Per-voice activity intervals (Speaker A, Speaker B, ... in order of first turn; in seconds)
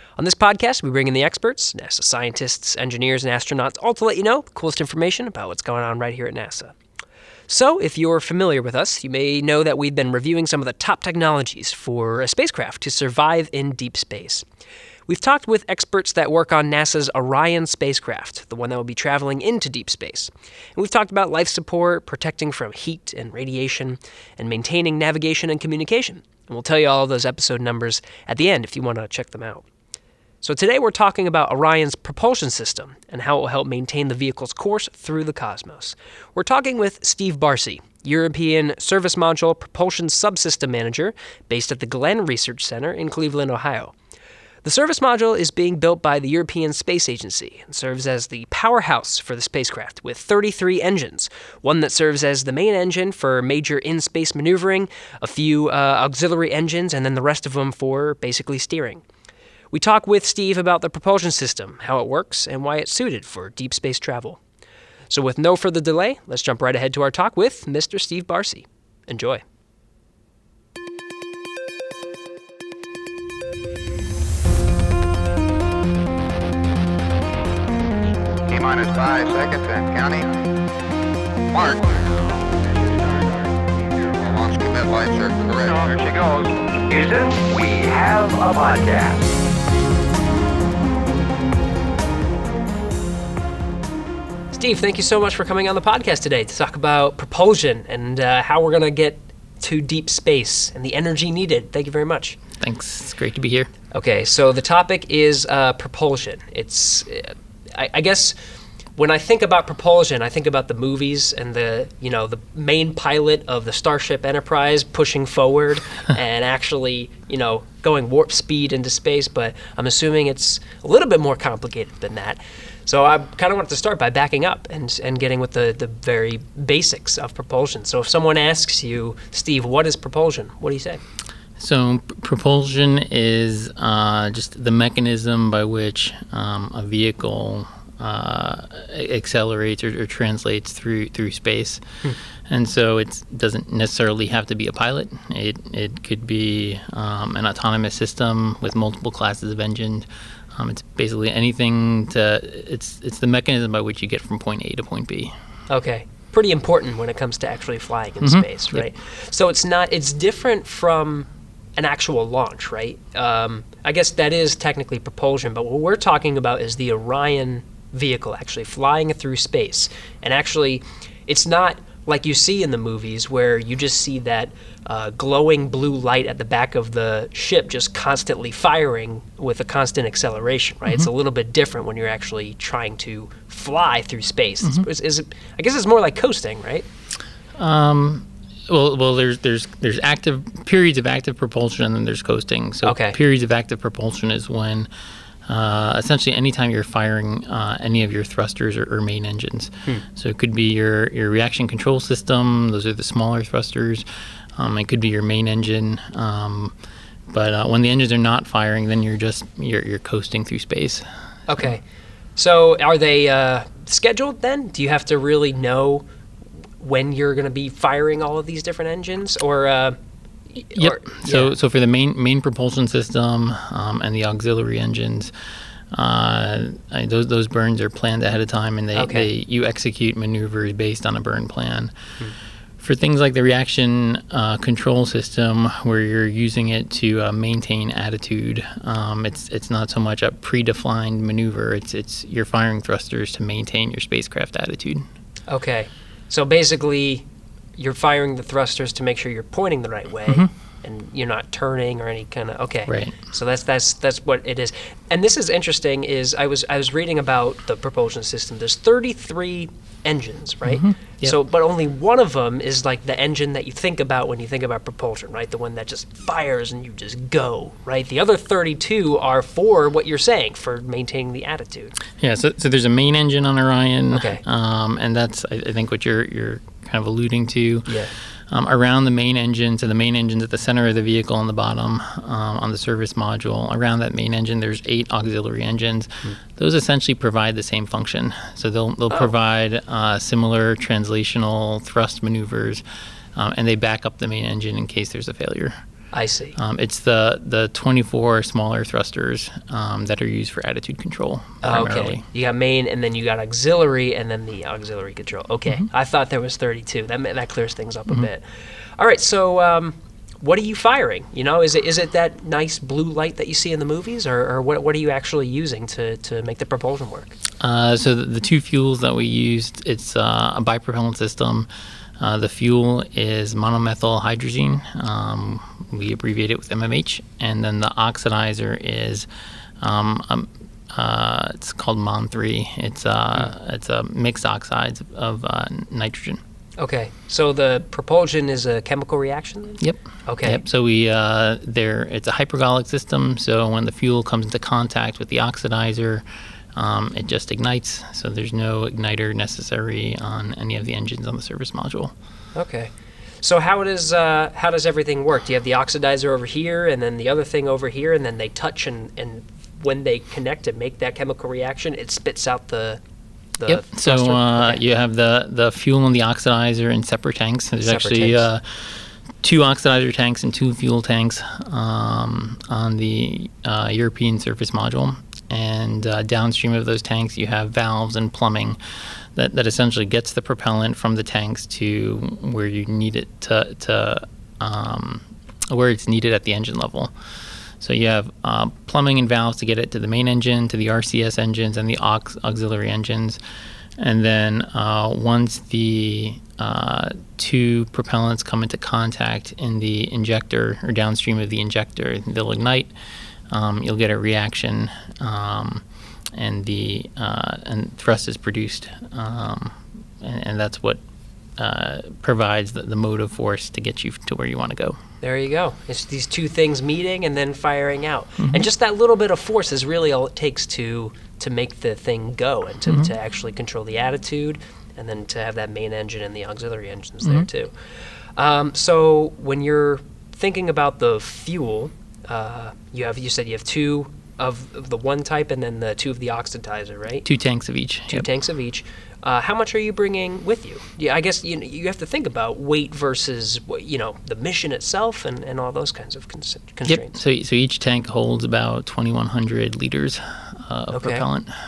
Speaker A: 0.2-6.7, 7.5-14.4, 15.1-29.6, 30.4-43.9, 44.6-59.0, 59.7-64.4, 65.1-69.4, 94.5-102.4, 103.9-108.4, 109.0-131.0, 155.7-186.9, 192.8-193.2, 211.5-211.8, 212.4-216.1, 216.8-220.0, 220.6-221.5, 228.9-229.3, 245.5-247.3, 247.8-272.0, 274.1-274.4, 277.9-278.1, 296.1-296.6, 301.6-308.4, 309.0-317.4, 336.8-340.6, 352.6-363.0, 363.6-364.8, 367.8-368.5, 415.2-427.7, 428.4-437.3, 438.1-447.2, 450.9-451.3
Speaker B: 78.5-80.3, 81.5-82.2, 84.2-86.4
Speaker C: 85.5-89.3
Speaker D: 102.6-103.7, 131.6-141.8, 142.5-155.3, 158.2-158.9, 187.6-194.9, 195.5-206.8, 207.3-211.1, 220.8-225.3, 225.9-231.9, 232.8-245.1, 252.9-253.2, 260.6-261.4, 272.2-292.8, 293.4-295.8, 296.6-302.2, 317.6-329.3, 329.8-336.4, 339.8-346.2, 346.8-352.1, 363.7-387.1, 387.8-393.4, 394.0-402.9, 403.5-411.0, 411.6-415.0, 418.4-418.7, 437.2-438.3, 446.9-451.6